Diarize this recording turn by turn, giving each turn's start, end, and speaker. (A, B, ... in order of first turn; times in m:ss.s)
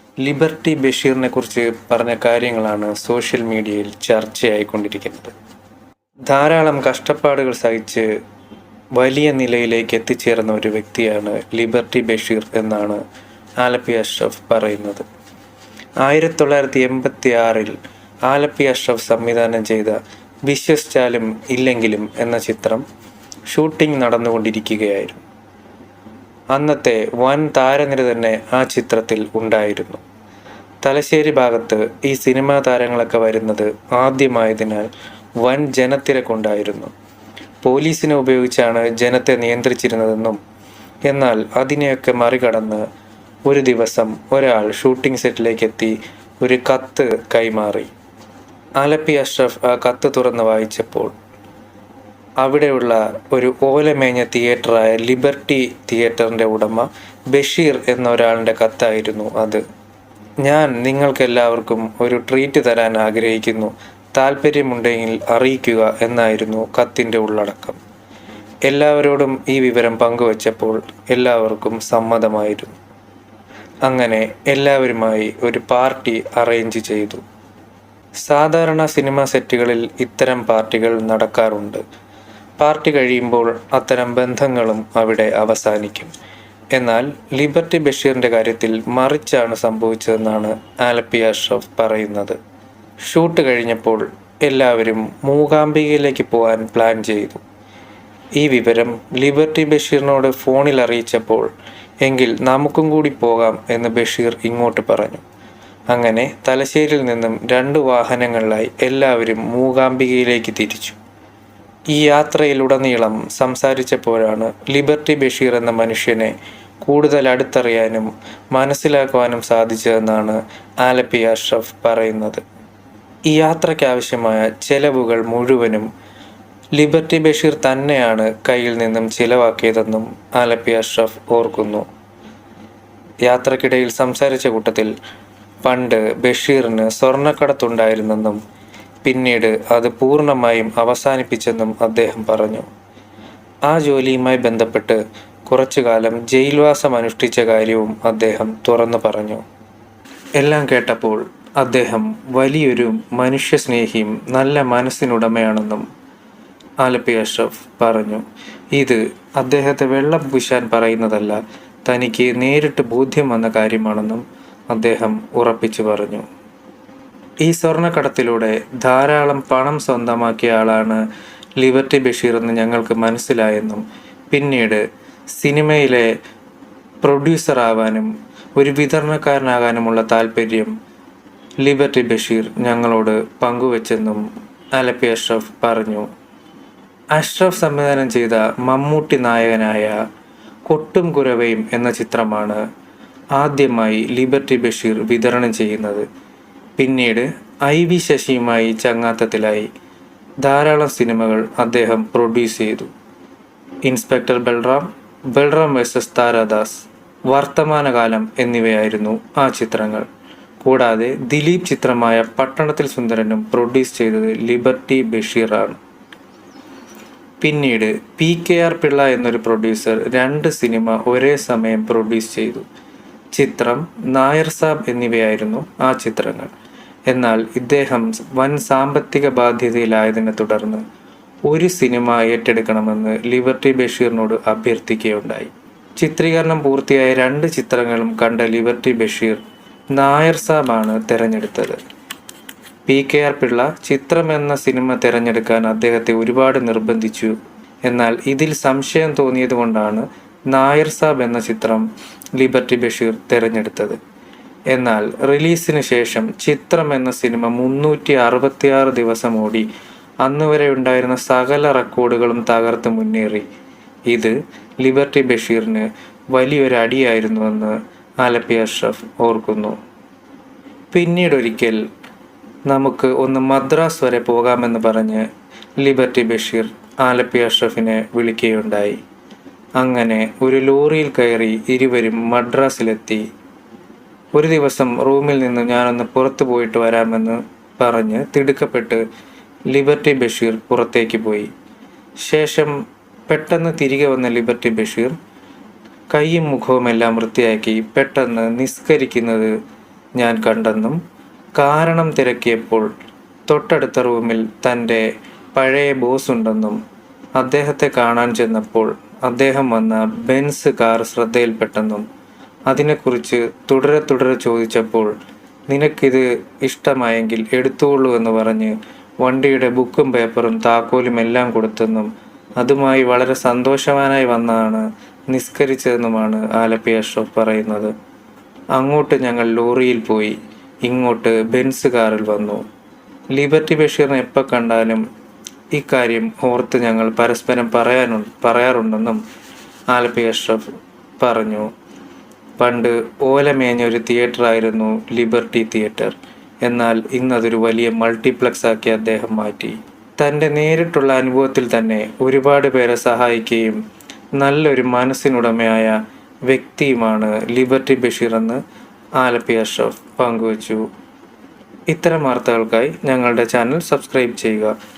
0:00.2-0:05.3 A
0:06.3-0:08.1 A
0:09.0-0:13.0 A
0:13.6-0:15.0 A
0:16.0-0:17.8 A
0:18.3-0:22.8 A
0:23.5-0:25.2 A
0:26.5-0:30.0 A
0:30.8-0:34.9 A
0:35.4-0:36.9 A
0:37.6-0:40.4 A
0:41.1-0:42.8 A
0:43.4-0:47.9 A
0:48.8-0:51.1 A
0:52.4-0:59.6 A
1:00.4-1:07.8 A
1:08.7-1:12.7 A
1:13.9-1:17.2 A
1:18.2-1:21.8 A
1:22.6-1:26.1 A
1:26.8-1:32.4 A
1:33.0-1:37.4 A
1:38.4-1:41.5 A
1:42.0-1:45.2 A
1:45.9-1:51.0 A
1:51.9-1:56.3 A
1:56.8-2:02.4 A
2:03.3-2:05.9 A
2:06.8-2:11.8 A
2:13.2-2:14.9 A
2:15.6-2:18.4 A
2:19.0-2:22.7 A
2:23.7-2:29.4 A
2:30.4-2:35.8 A
2:36.8-2:46.2 A
2:47.4-2:51.0 A
2:51.6-2:56.1 A
2:57.0-3:00.7 A
3:01.6-3:04.2 A
3:04.8-3:06.1 A
3:07.1-3:10.0 A
3:10.7-3:12.6 A
3:13.4-3:16.0 A
3:16.8-3:19.7 A
3:20.4-3:22.9 A
3:23.8-3:30.1 A
3:30.6-3:35.8 A
3:37.4-3:42.6 A
3:43.3-3:46.5 A
3:47.1-3:50.8 A
3:51.5-3:59.4 A
3:59.9-4:01.8 A
4:02.9-4:07.3 A
4:07.8-4:14.0 A
4:14.7-4:19.7 A
4:20.2-4:23.4 A
4:24.1-4:29.8 A
4:30.9-4:31.8 A
4:32.7-4:35.2 A
4:35.8-4:39.0 A
4:39.8-4:43.2 A
4:44.4-4:49.0 A
4:49.7-4:51.5 A
4:52.2-4:52.7 A
4:53.3-4:55.1 A
4:56.1-4:59.5 A
5:00.2-5:01.0 A
5:01.6-5:02.9 A
5:03.5-5:06.8 A
5:07.4-5:12.0 A
5:12.7-5:15.1 A
5:15.7-5:27.9 A
5:28.8-5:32.6 A
5:33.3-5:35.0 A
5:35.7-5:39.2 A
5:39.9-5:40.6 A
5:41.2-5:41.7 A
5:42.6-5:53.8 A
5:54.4-5:58.6 A
5:59.2-6:00.8 A
6:01.9-6:04.7 A